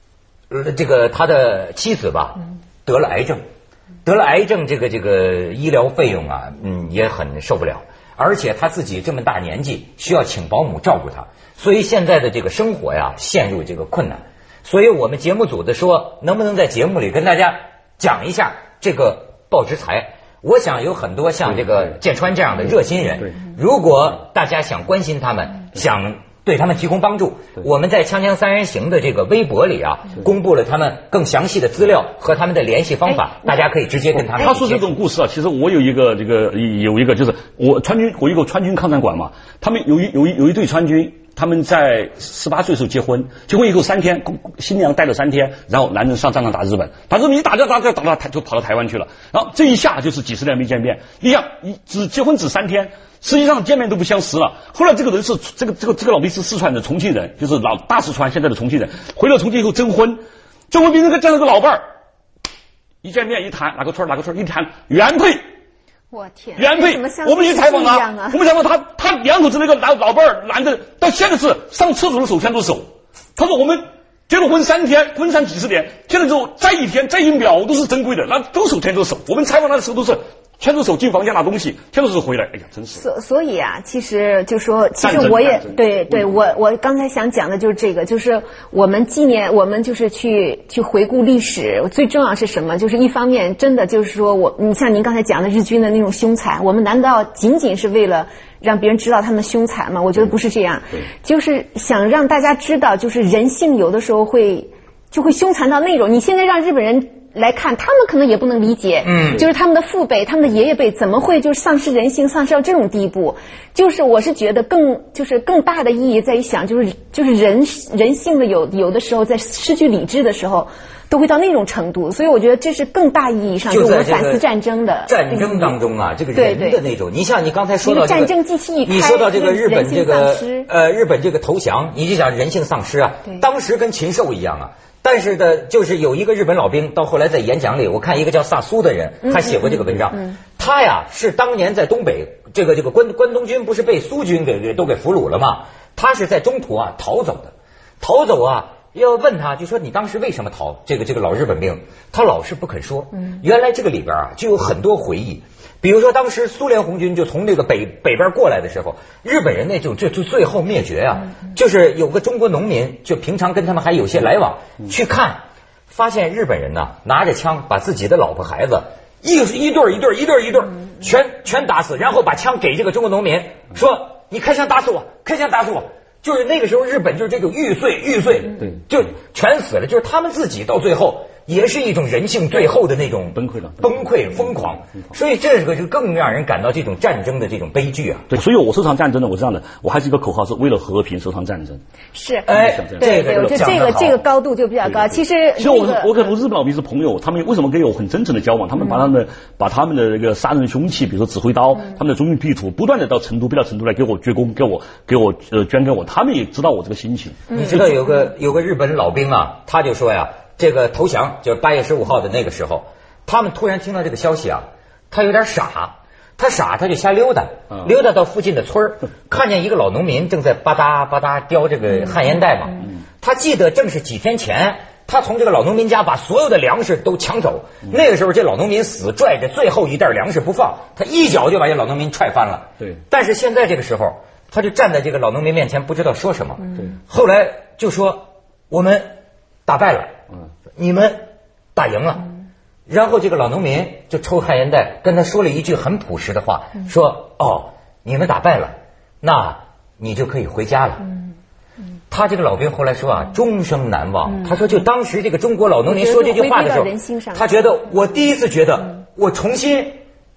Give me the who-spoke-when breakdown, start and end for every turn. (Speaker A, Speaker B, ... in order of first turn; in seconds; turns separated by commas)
Speaker A: 0.5-3.4, Speaker A: 4.0-34.9, Speaker B: 34.3-61.8, Speaker B: 63.0-65.5, Speaker C: 66.1-68.4, Speaker B: 66.6-83.0, Speaker C: 83.0-125.8, Speaker B: 85.0-86.5, Speaker A: 109.0-109.4, Speaker A: 123.7-124.5, Speaker A: 125.1-188.3, Speaker C: 126.3-126.8, Speaker C: 127.8-130.7, Speaker B: 183.3-183.9, Speaker B: 188.3-191.8, Speaker C: 192.1-196.3, Speaker A: 192.5-194.2, Speaker B: 192.5-193.6, Speaker B: 194.8-207.4, Speaker A: 207.5-239.1, Speaker A: 239.7-240.2, Speaker A: 240.8-242.3, Speaker A: 242.9-251.0, Speaker A: 252.1-260.0, Speaker C: 255.9-257.5